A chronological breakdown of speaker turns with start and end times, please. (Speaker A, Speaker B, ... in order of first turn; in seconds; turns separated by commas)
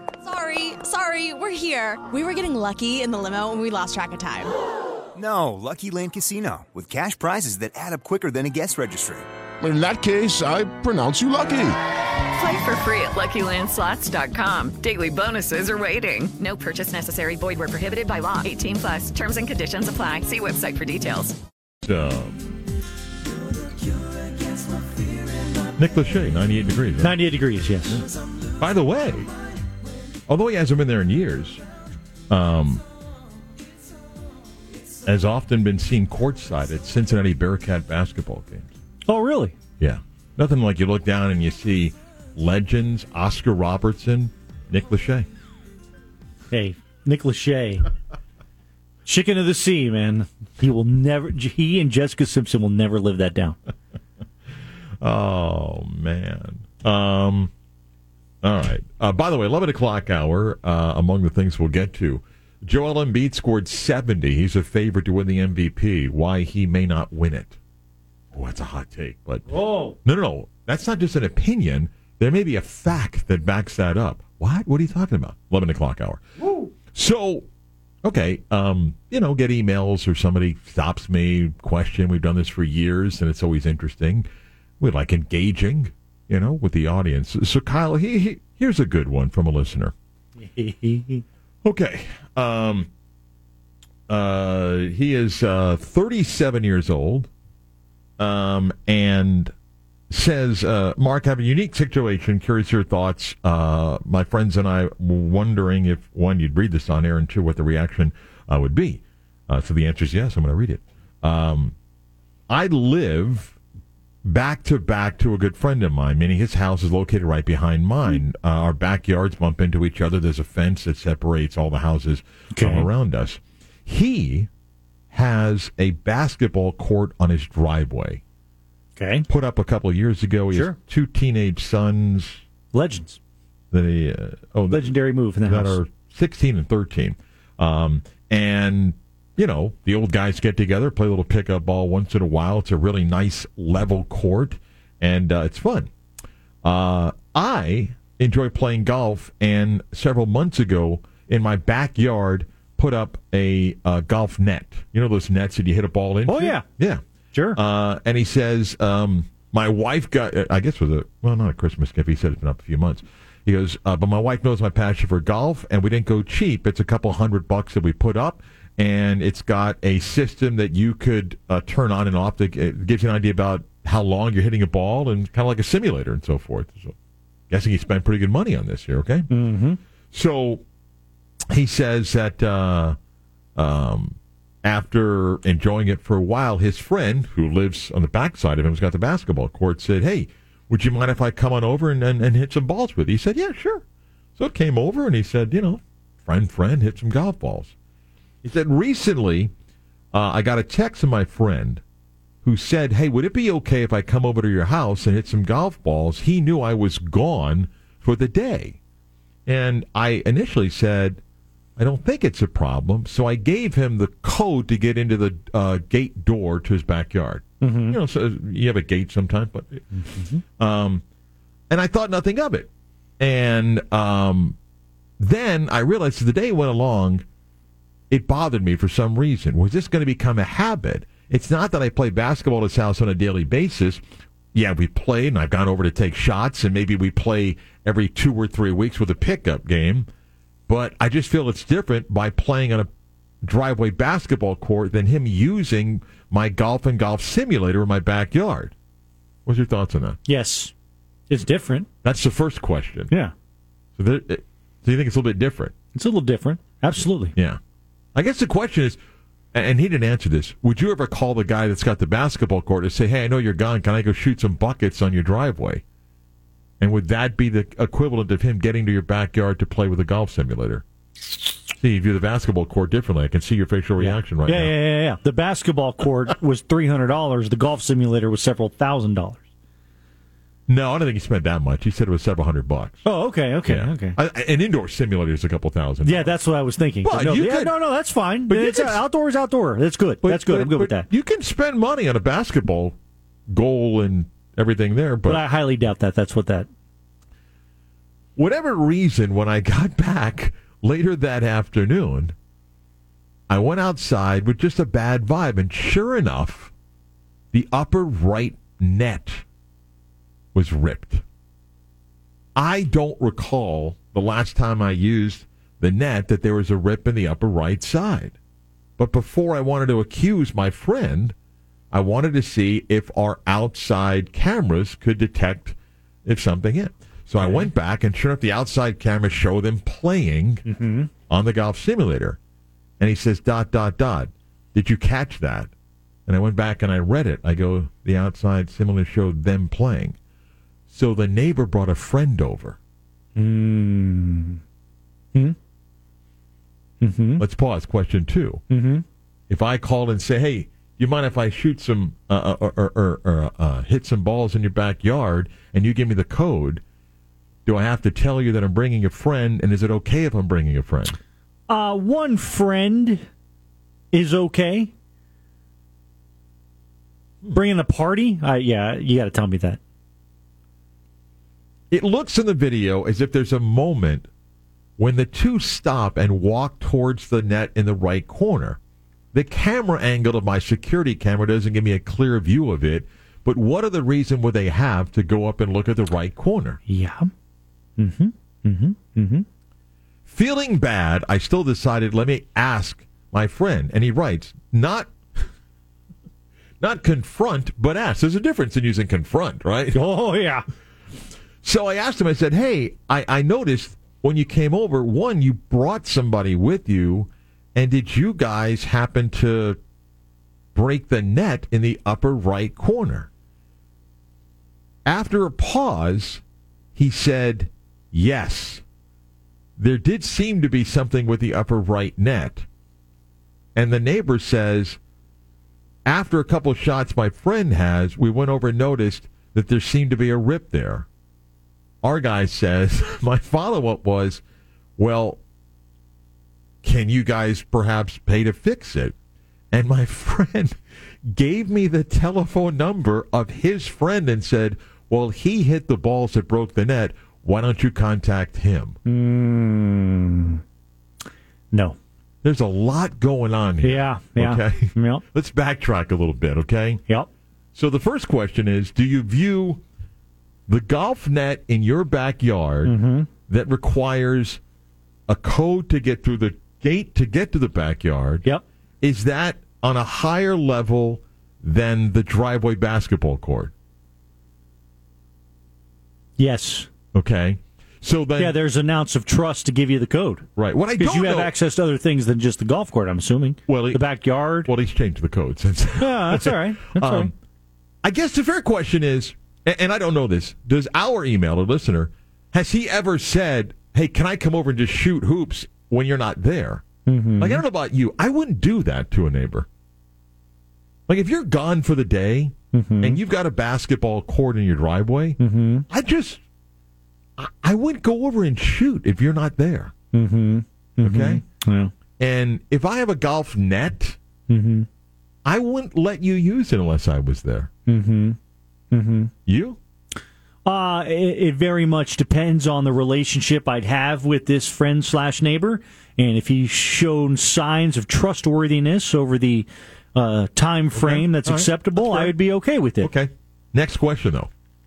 Speaker A: 0.2-4.5, Speaker B: 5.1-9.2, Speaker C: 9.6-11.8, Speaker D: 12.4-21.4, Speaker E: 21.8-22.4, Speaker E: 25.8-27.2, Speaker F: 27.0-28.0, Speaker E: 28.6-29.3, Speaker E: 30.3-31.6, Speaker E: 32.3-32.8, Speaker E: 35.0-38.7, Speaker F: 39.1-39.5, Speaker E: 39.8-45.2, Speaker F: 46.5-47.9, Speaker F: 49.0-53.6, Speaker E: 55.0-57.5, Speaker E: 58.4-67.6, Speaker E: 68.3-76.2, Speaker F: 69.5-69.9, Speaker F: 76.4-76.7, Speaker E: 76.9-77.5, Speaker E: 78.0-84.3, Speaker E: 84.8-89.9, Speaker F: 90.4-91.2, Speaker E: 91.6-92.9, Speaker E: 94.1-97.3, Speaker E: 98.2-99.5, Speaker E: 100.1-111.7, Speaker E: 112.5-113.6, Speaker E: 114.2-124.5, Speaker F: 122.5-122.9, Speaker E: 125.1-128.2, Speaker F: 129.0-129.3, Speaker E: 129.3-132.4, Speaker F: 132.7-133.2, Speaker E: 133.7-145.9, Speaker F: 134.7-135.8, Speaker E: 146.6-157.0, Speaker F: 156.2-156.6, Speaker F: 157.3-157.6, Speaker E: 157.6-176.9, Speaker E: 177.5-179.3, Speaker F: 179.3-179.8, Speaker E: 180.1-180.6, Speaker E: 181.5-183.0, Speaker E: 183.6-193.8, Speaker E: 194.4-197.7, Speaker E: 198.4-199.5, Speaker E: 200.1-201.8, Speaker E: 202.4-208.8, Speaker E: 209.4-211.2, Speaker E: 211.8-219.8, Speaker F: 217.6-218.0, Speaker F: 220.1-220.4, Speaker E: 220.6-221.0, Speaker E: 221.7-224.6, Speaker E: 225.2-227.2, Speaker E: 228.1-234.0, Speaker E: 234.5-240.1, Speaker E: 240.7-242.9, Speaker E: 243.4-248.7, Speaker E: 249.4-250.2, Speaker F: 250.3-250.7, Speaker F: 251.3-251.9, Speaker E: 252.0-253.1, Speaker E: 254.0-255.7, Speaker F: 255.9-257.3, Speaker E: 257.3-257.6, Speaker E: 258.1-259.0, Speaker E: 259.5-265.8, Speaker E: 266.8-270.8, Speaker E: 271.7-274.8, Speaker F: 274.0-279.4, Speaker E: 280.7-283.0, Speaker F: 283.0-284.1, Speaker E: 283.6-286.4, Speaker F: 286.0-291.1, Speaker E: 287.0-287.8, Speaker E: 288.5-289.0, Speaker E: 290.2-292.9, Speaker E: 293.5-295.4, Speaker F: 295.2-296.7, Speaker E: 298.4-302.3, Speaker E: 303.5-306.7, Speaker E: 307.5-309.4, Speaker E: 310.5-311.2, Speaker E: 312.6-318.4, Speaker E: 319.0-321.3, Speaker E: 321.9-330.6, Speaker F: 327.4-327.7, Speaker F: 330.6-331.1, Speaker E: 331.3-332.4, Speaker E: 333.0-335.7, Speaker E: 336.3-340.1, Speaker E: 340.9-342.8, Speaker F: 343.4-344.6, Speaker F: 347.0-347.4, Speaker E: 347.4-348.6, Speaker F: 348.7-349.0, Speaker E: 349.5-356.8, Speaker E: 357.6-361.2, Speaker F: 361.7-363.2, Speaker F: 364.1-364.9, Speaker F: 367.5-369.8, Speaker E: 371.9-374.3, Speaker E: 375.0-378.8, Speaker E: 379.3-386.8, Speaker F: 386.9-387.3, Speaker F: 388.0-389.4, Speaker E: 390.3-395.1, Speaker E: 396.8-400.0, Speaker F: 399.9-400.6, Speaker E: 401.6-409.8, Speaker E: 410.7-413.3, Speaker E: 415.1-416.4, Speaker E: 416.9-418.8, Speaker E: 419.8-422.6, Speaker E: 423.8-425.0, Speaker E: 426.1-431.1, Speaker E: 432.0-434.4, Speaker E: 435.0-435.4, Speaker E: 436.8-439.1, Speaker E: 439.7-440.8, Speaker E: 441.3-449.0, Speaker F: 449.0-450.6, Speaker F: 451.7-452.0, Speaker E: 452.4-457.0, Speaker F: 453.8-455.2, Speaker E: 457.7-459.8, Speaker E: 460.7-462.9, Speaker F: 462.8-463.3, Speaker E: 463.5-464.6, Speaker E: 465.3-468.4, Speaker E: 469.0-473.7, Speaker F: 476.4-476.9, Speaker E: 477.1-478.5, Speaker F: 478.4-484.7, Speaker E: 480.6-481.5, Speaker E: 483.7-487.3, Speaker F: 486.0-487.3, Speaker E: 488.0-496.8, Speaker F: 497.1-497.6, Speaker E: 497.4-499.7, Speaker E: 501.1-505.4, Speaker F: 502.7-503.2, Speaker F: 505.4-505.8, Speaker E: 505.9-506.4, Speaker E: 507.4-509.9, Speaker F: 510.1-511.9, Speaker E: 511.0-511.4, Speaker E: 512.2-514.2, Speaker F: 514.5-514.9, Speaker E: 515.4-517.7, Speaker F: 517.9-518.4, Speaker F: 518.9-519.3, Speaker E: 519.5-519.8, Speaker F: 520.6-533.1, Speaker E: 530.9-532.4, Speaker E: 533.0-534.5